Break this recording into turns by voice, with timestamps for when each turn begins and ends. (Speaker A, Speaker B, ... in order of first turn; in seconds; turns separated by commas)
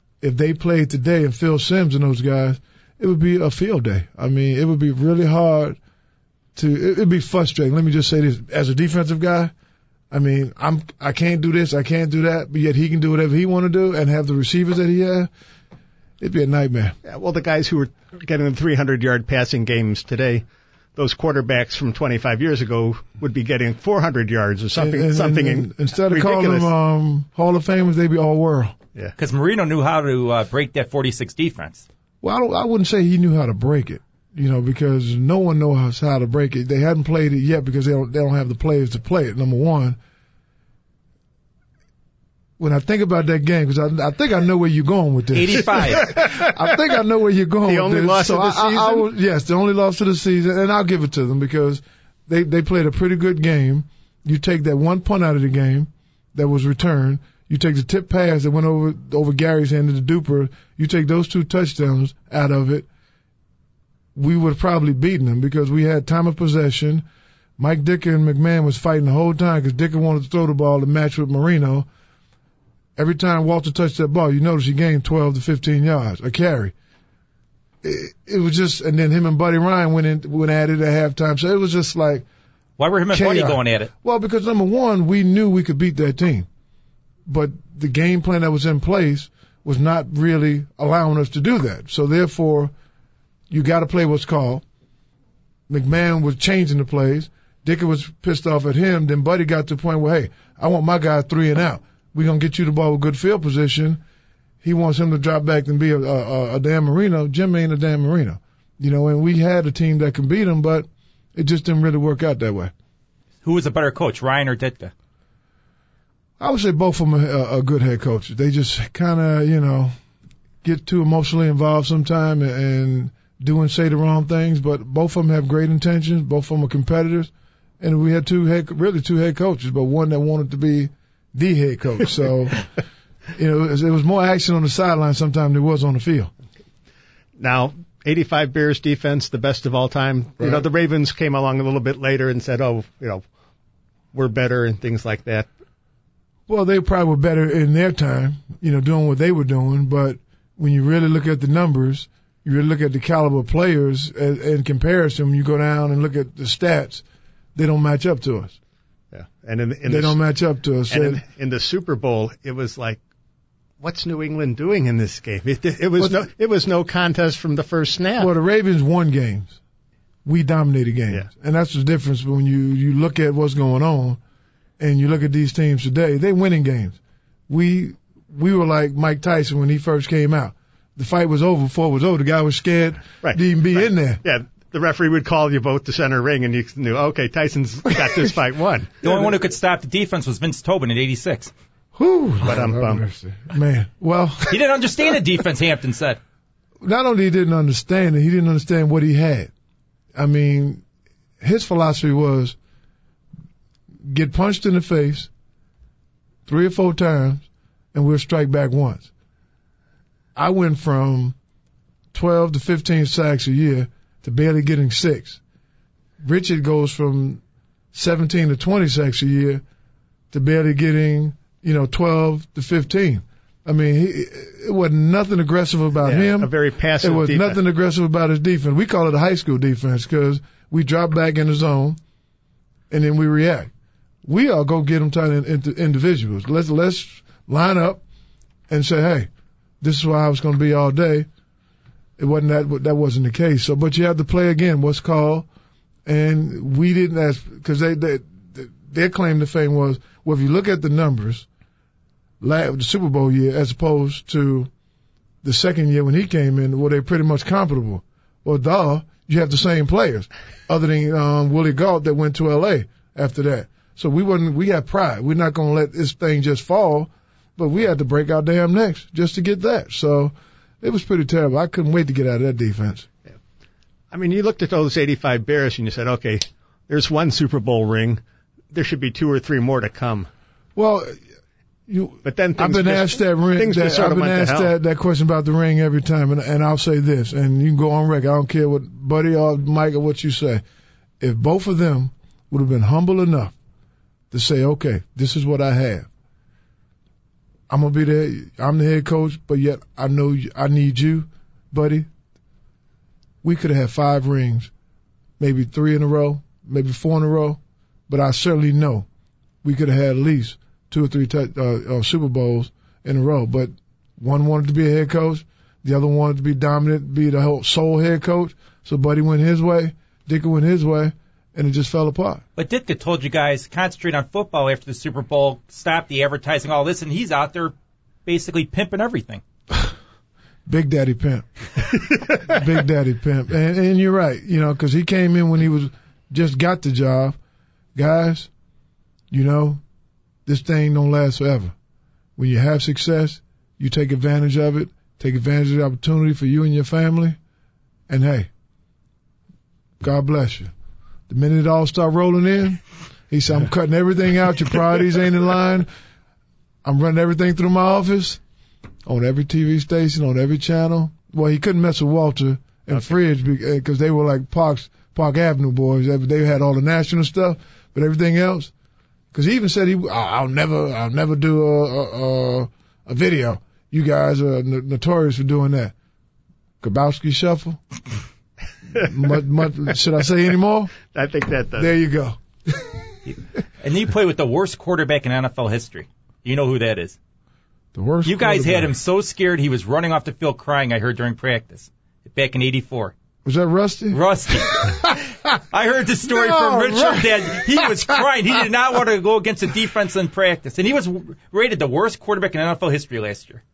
Speaker A: 0.2-5.8, Speaker A: 6.5-9.5, Speaker A: 10.1-15.3, Speaker A: 16.2-16.9, Speaker B: 17.0-26.7, Speaker A: 24.8-28.8, Speaker C: 29.2-31.8, Speaker A: 32.2-40.0, Speaker A: 42.6-62.9, Speaker C: 45.3-46.1, Speaker B: 46.0-46.5, Speaker B: 47.6-49.1, Speaker A: 64.1-67.0, Speaker A: 67.6-71.9, Speaker A: 73.0-76.7, Speaker A: 77.8-82.2, Speaker C: 82.8-83.9, Speaker A: 83.1-86.5, Speaker A: 87.2-92.7, Speaker A: 93.5-94.6, Speaker A: 95.7-104.0, Speaker A: 104.6-112.7, Speaker C: 113.4-114.9, Speaker A: 116.4-119.9, Speaker A: 120.6-132.6, Speaker A: 133.3-136.3, Speaker B: 137.4-143.2, Speaker A: 140.4-140.6, Speaker B: 144.1-145.5, Speaker A: 146.5-157.0, Speaker A: 157.5-158.6, Speaker B: 159.1-160.2, Speaker A: 159.9-161.2, Speaker B: 160.9-163.0, Speaker B: 163.8-168.3, Speaker A: 168.2-169.6, Speaker A: 170.2-174.2, Speaker A: 174.8-177.0, Speaker A: 177.5-184.2, Speaker B: 184.2-189.0, Speaker C: 189.0-191.5, Speaker A: 191.9-194.6, Speaker B: 192.4-193.0, Speaker C: 194.5-196.2, Speaker A: 196.8-199.5, Speaker A: 200.1-200.8, Speaker A: 201.4-202.6, Speaker A: 204.0-205.3, Speaker A: 206.4-209.1, Speaker A: 210.3-211.3, Speaker A: 212.1-215.4, Speaker A: 216.2-217.4, Speaker A: 217.9-219.6, Speaker A: 220.3-232.0, Speaker B: 226.0-227.6, Speaker A: 232.9-233.7, Speaker A: 234.2-238.0, Speaker A: 238.7-239.3, Speaker A: 239.8-241.3, Speaker A: 242.2-245.5, Speaker A: 246.1-251.4, Speaker A: 252.4-254.7, Speaker A: 255.4-273.1, Speaker B: 274.1-278.2, Speaker B: 278.7-280.3, Speaker A: 280.8-281.1, Speaker A: 281.9-290.6, Speaker B: 282.2-284.7, Speaker A: 291.2-293.5, Speaker A: 294.3-296.1, Speaker A: 297.7-302.1, Speaker A: 303.4-304.7, Speaker A: 305.4-309.1, Speaker A: 309.6-322.4, Speaker C: 322.6-327.7, Speaker C: 328.2-329.4, Speaker A: 330.6-331.5, Speaker A: 332.4-337.4, Speaker A: 337.9-338.5, Speaker A: 339.3-339.8, Speaker A: 340.4-341.7, Speaker A: 342.4-347.4, Speaker A: 348.1-348.5, Speaker A: 350.0-350.7, Speaker A: 351.3-355.9, Speaker A: 356.8-358.4, Speaker A: 359.0-368.7, Speaker A: 369.3-375.9, Speaker A: 376.8-377.8, Speaker A: 378.9-380.9, Speaker B: 381.1-381.9, Speaker A: 381.8-382.9, Speaker C: 383.3-387.2, Speaker A: 387.9-388.9, Speaker C: 388.2-393.1, Speaker A: 393.4-395.2, Speaker C: 394.1-403.6, Speaker A: 396.3-398.2